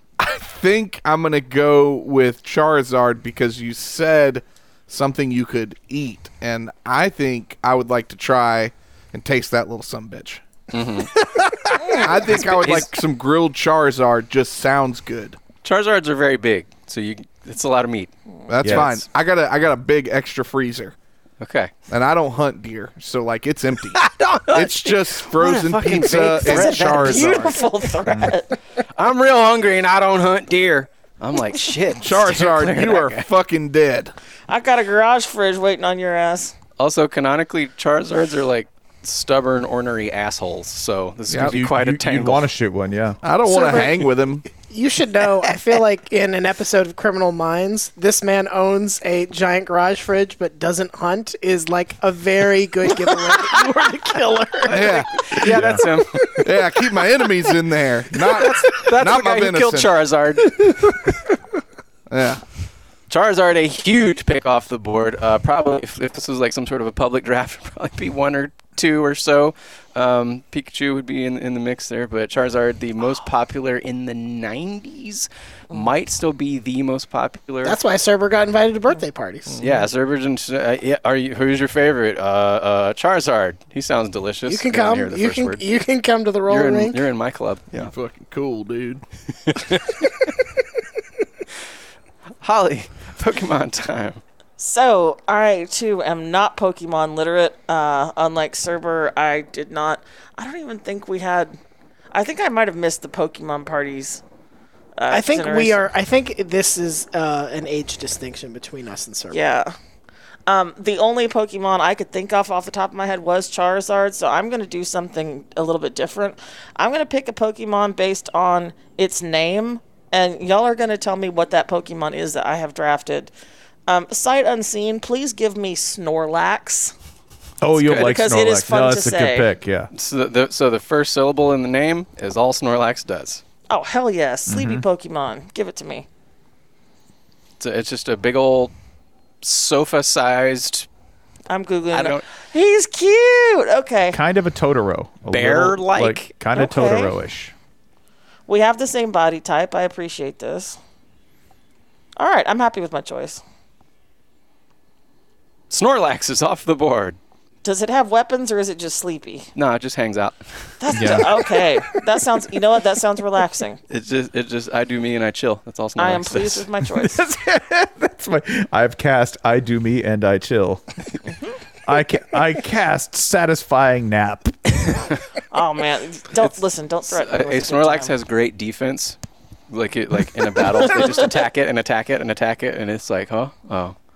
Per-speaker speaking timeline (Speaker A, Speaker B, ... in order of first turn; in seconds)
Speaker A: 0.2-10.4, 11.1-15.4, 18.5-20.9, 21.9-27.6, 32.0-34.1, 41.3-41.8, 43.2-44.5, 54.7-55.3, 56.4-59.9, 62.1-62.4, 87.7-89.0
Speaker B: 10.7-11.2, 11.8-12.9, 15.6-18.1, 18.6-19.0, 21.4-21.7, 23.9-27.7, 28.8-33.3, 36.8-42.5, 53.0-53.7, 54.6-56.6, 58.2-61.0, 63.1-77.8, 79.6-85.6, 86.5-87.9, 89.5-90.3, 92.4-94.2, 129.9-133.4, 137.6-138.7, 139.4-140.9, 141.9-142.2, 145.3-146.3, 155.7-157.2, 159.6-161.2, 163.9-166.7, 177.1-179.2, 179.7-184.0
Speaker C: 18.6-18.9, 41.4-43.2, 55.5-55.9, 127.6-129.9, 134.5-134.8, 144.1-147.5, 160.9-161.3, 166.8-170.8, 171.8-175.1
Speaker D: 26.4-28.6, 34.5-36.5, 94.6-101.6, 102.1-104.2, 105.0-105.9, 109.3-109.7, 110.5-123.3, 123.9-126.9, 127.7-129.5, 133.7-136.1, 141.5-144.2, 146.6-147.1, 148.5-150.8, 152.2-153.4, 157.6-159.5, 160.8-163.8, 166.0-167.2, 175.5-178.1, 180.6-181.4
Speaker E: 43.5-44.0, 44.5-56.5, 77.6-79.6, 84.5-87.0, 105.1-109.4